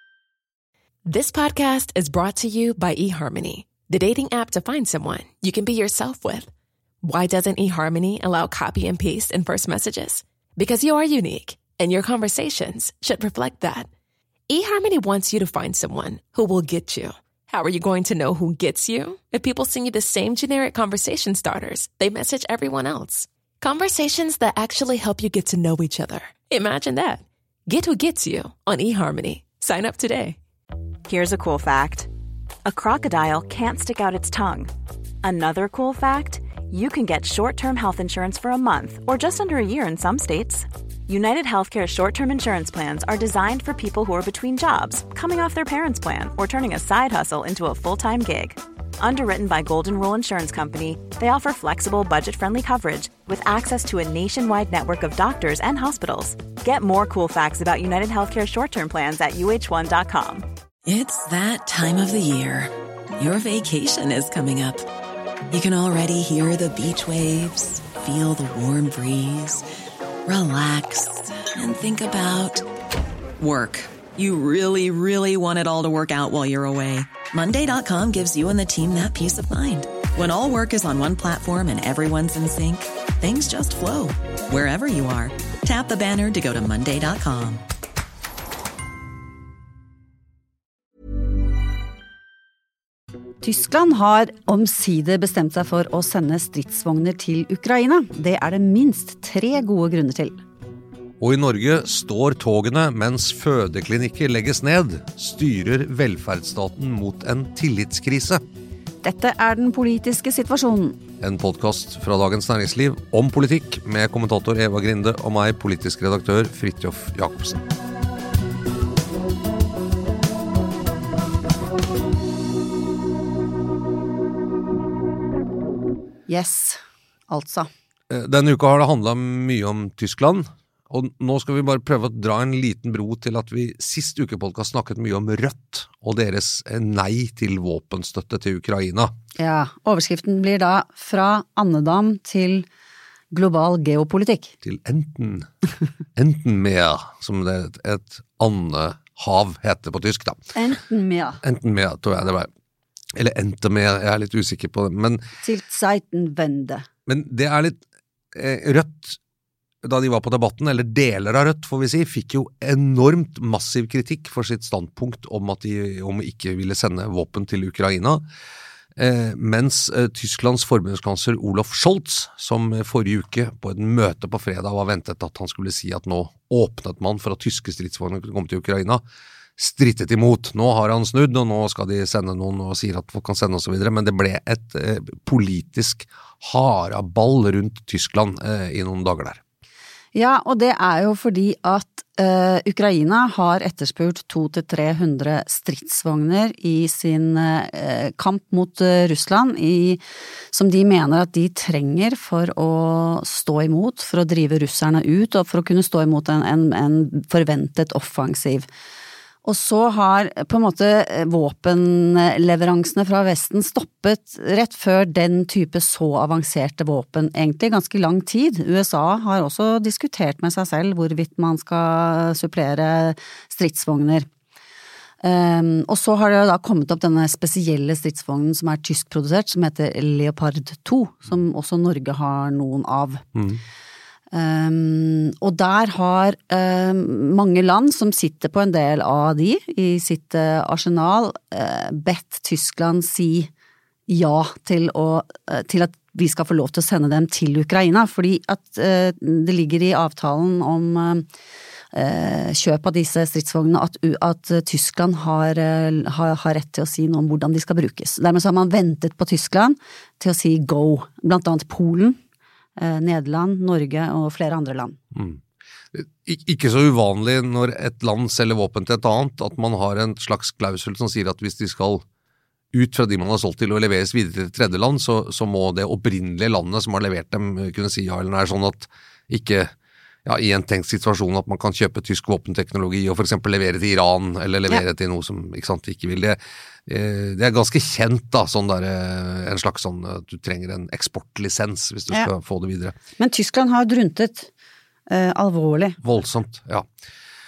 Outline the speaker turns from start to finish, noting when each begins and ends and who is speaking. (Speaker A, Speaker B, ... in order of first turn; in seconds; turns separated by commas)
Speaker A: 1.1-6.5, Speaker A: 7.0-13.9, Speaker A: 14.5-30.4, Speaker B: 31.1-32.1, Speaker B: 32.6-34.7, Speaker B: 35.2-60.4, Speaker C: 60.9-64.8, Speaker C: 65.5-69.6, Speaker C: 70.2-72.6, Speaker C: 73.4-87.6, Speaker D: 93.4-100.4, Speaker E: 101.2-108.4, Speaker D: 109.0-111.0, Speaker E: 111.2-117.6, Speaker D: 126.3-127.7, Speaker E: 128.1-139.1, Speaker D: 139.4-142.7, Speaker D: 143.3-144.5, Speaker E: 144.6-145.5, Speaker E: 146.2-150.4, Speaker D: 150.5-151.4, Speaker E: 151.4-152.5, Speaker E: 153.2-155.2, Speaker D: 155.4-156.9, Speaker E: 157.1-157.8, Speaker E: 158.3-159.2, Speaker E: 159.8-168.2, Speaker E: 169.0-179.0, Speaker E: 179.6-189.4, Speaker D: 190.1-208.7, Speaker D: 209.4-224.3, Speaker D: 225.2-233.2, Speaker E: 233.3-233.6, Speaker D: 234.3-243.5, Speaker D: 244.1-251.3, Speaker D: 251.9-262.2, Speaker D: 262.8-265.0, Speaker E: 265.1-265.4, Speaker E: 265.9-272.0, Speaker E: 272.7-279.7, Speaker E: 280.2-292.9, Speaker D: 293.2-294.5, Speaker D: 295.1-296.0, Speaker E: 296.0-296.9